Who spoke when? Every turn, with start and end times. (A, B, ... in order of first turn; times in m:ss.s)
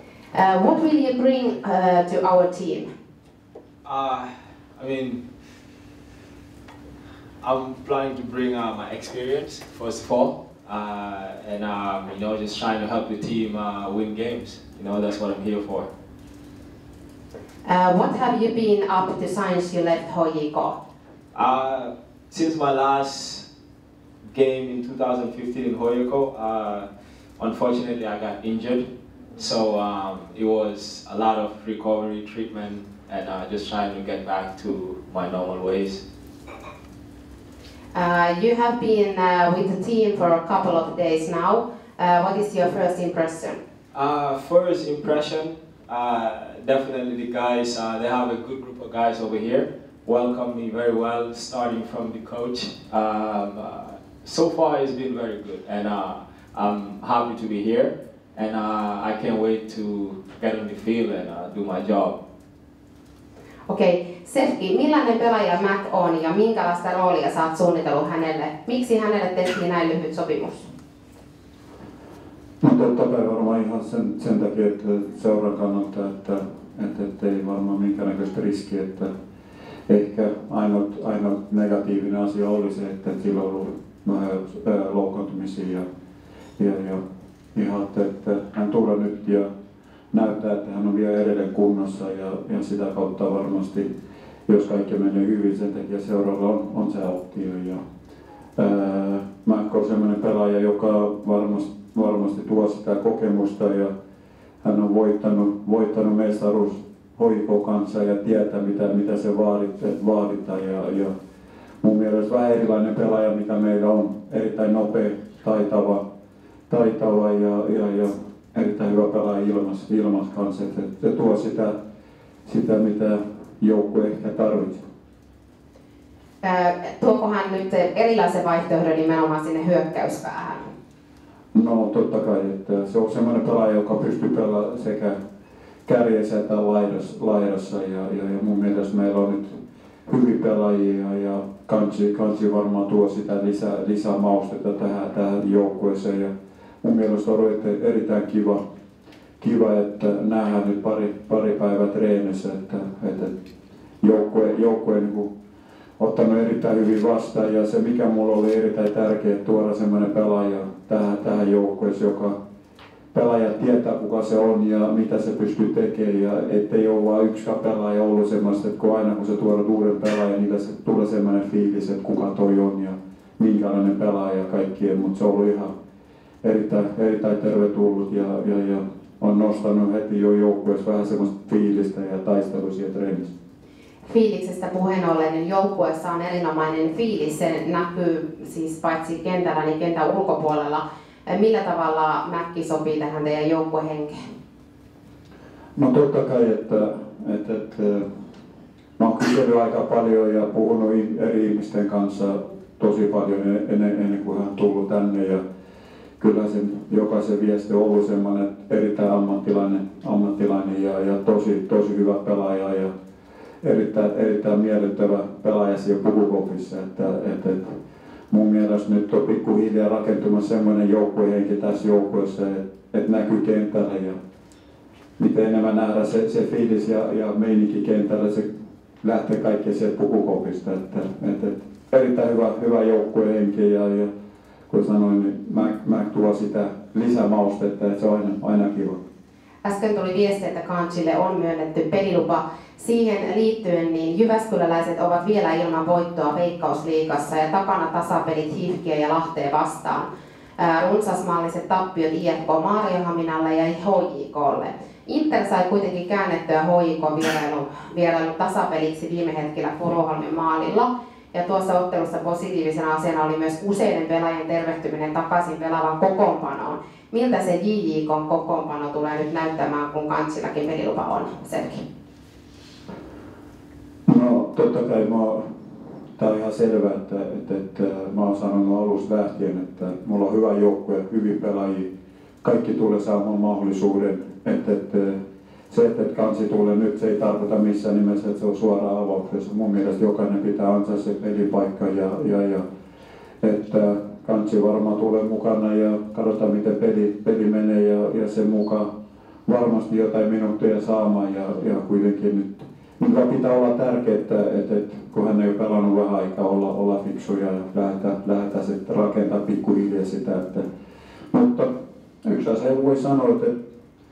0:00.3-0:02.9 A
0:03.8-0:05.2 B
0:07.4-0:15.9 B
0:17.6-0:20.8 A
0:21.3-0:23.5 B
0:24.3-0:36.0 B
0:37.9-0:43.6 A
0:43.9-1:02.2 B
1:03.7-1:10.7 A
1:12.6-1:19.1 C
1:19.9-1:25.8 C
1:26.6-1:27.0 C
1:27.6-1:29.5 C
1:30.1-1:33.9 C
1:34.5-1:37.8 C
1:38.6-1:43.9 C
1:44.6-1:51.1 C
1:51.8-1:56.0 C
1:56.7-2:01.7 C
2:02.5-2:04.8 C
2:06.4-2:10.6 A
2:11.5-2:15.2 C
2:15.9-2:19.5 C
2:20.1-2:26.3 C
2:26.8-2:28.6 C
2:29.4-2:33.3 C
2:34.0-2:35.3 C
2:36.0-2:42.4 C
2:43.1-2:55.7 C
2:56.4-3:03.3 C
3:04.0-3:14.2 A
3:15.8-3:18.0 C
3:19.0-3:25.4 C
3:26.2-3:32.9 C
3:33.6-3:37.8 C
3:38.3-3:44.2 C
3:45.2-3:48.5 C
3:49.0-3:54.1 C
3:54.7-3:59.0 C
3:59.6-4:10.1 A
4:10.6-4:31.8 A
4:34.1-4:35.4 C
4:36.2-4:41.9 C
4:42.4-4:45.2 C
4:45.7-4:52.6 C
4:53.4-4:58.9 C
4:59.5-5:10.6 C
5:11.3-5:11.7 C
5:12.2-5:13.5 C